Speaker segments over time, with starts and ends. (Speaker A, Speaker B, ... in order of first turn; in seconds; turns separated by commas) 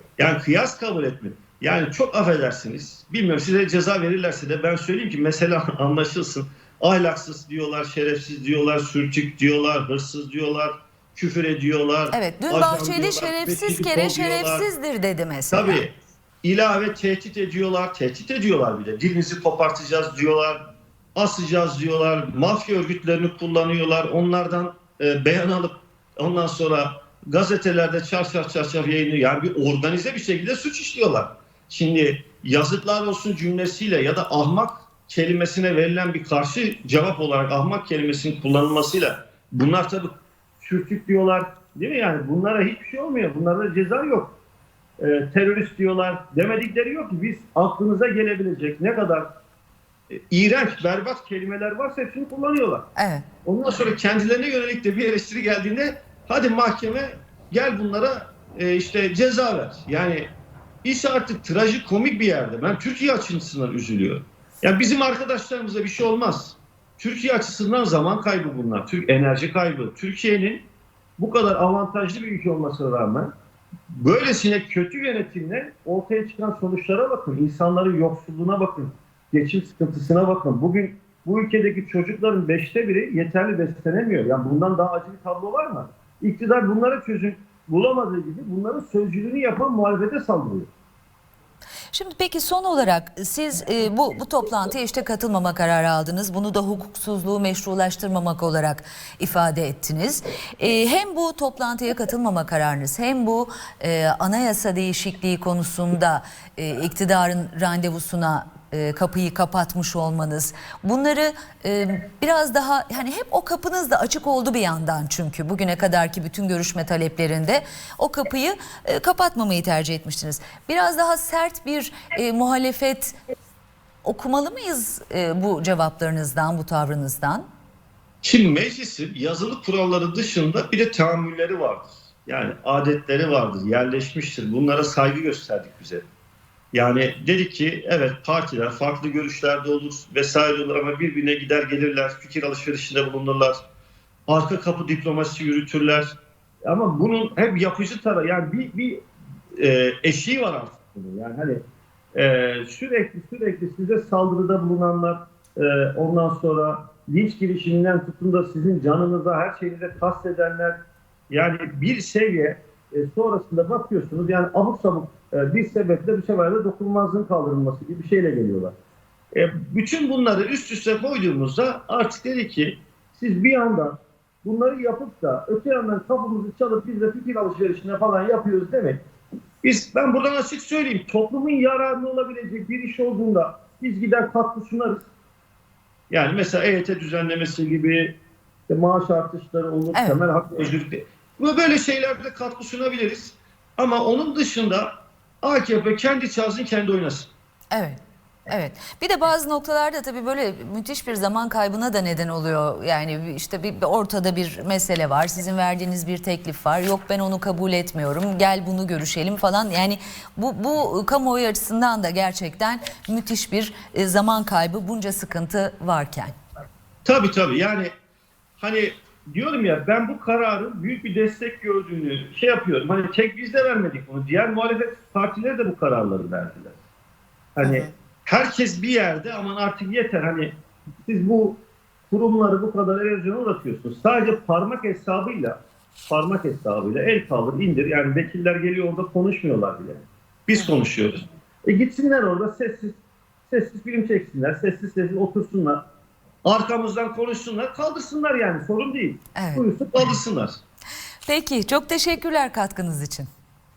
Speaker A: 0.2-14.7, Speaker B: 12.1-15.8, Speaker A: 15.5-20.6, Speaker A: 21.1-44.4, Speaker A: 45.0-49.3, Speaker A: 50.1-52.9, Speaker B: 53.0-53.2, Speaker A: 53.4-60.3, Speaker A: 60.8-70.7, Speaker A: 71.2-73.3, Speaker A: 73.9-90.7, Speaker B: 91.9-123.2, Speaker B: 124.0-127.5, Speaker A: 128.2-136.1, Speaker A: 136.7-143.6, Speaker A: 144.3-149.0, Speaker A: 149.6-151.6, Speaker A: 152.1-168.7, Speaker A: 169.3-179.0, Speaker A: 179.6-185.1, Speaker A: 186.1-188.2, Speaker A: 188.7-197.3, Speaker B: 189.9-190.2, Speaker B: 197.7-216.3, Speaker A: 217.0-217.9, Speaker A: 218.6-226.8, Speaker A: 227.6-230.5, Speaker A: 231.0-235.6, Speaker A: 236.1-245.8, Speaker A: 246.4-250.6, Speaker B: 249.3-249.6, Speaker B: 251.3-253.3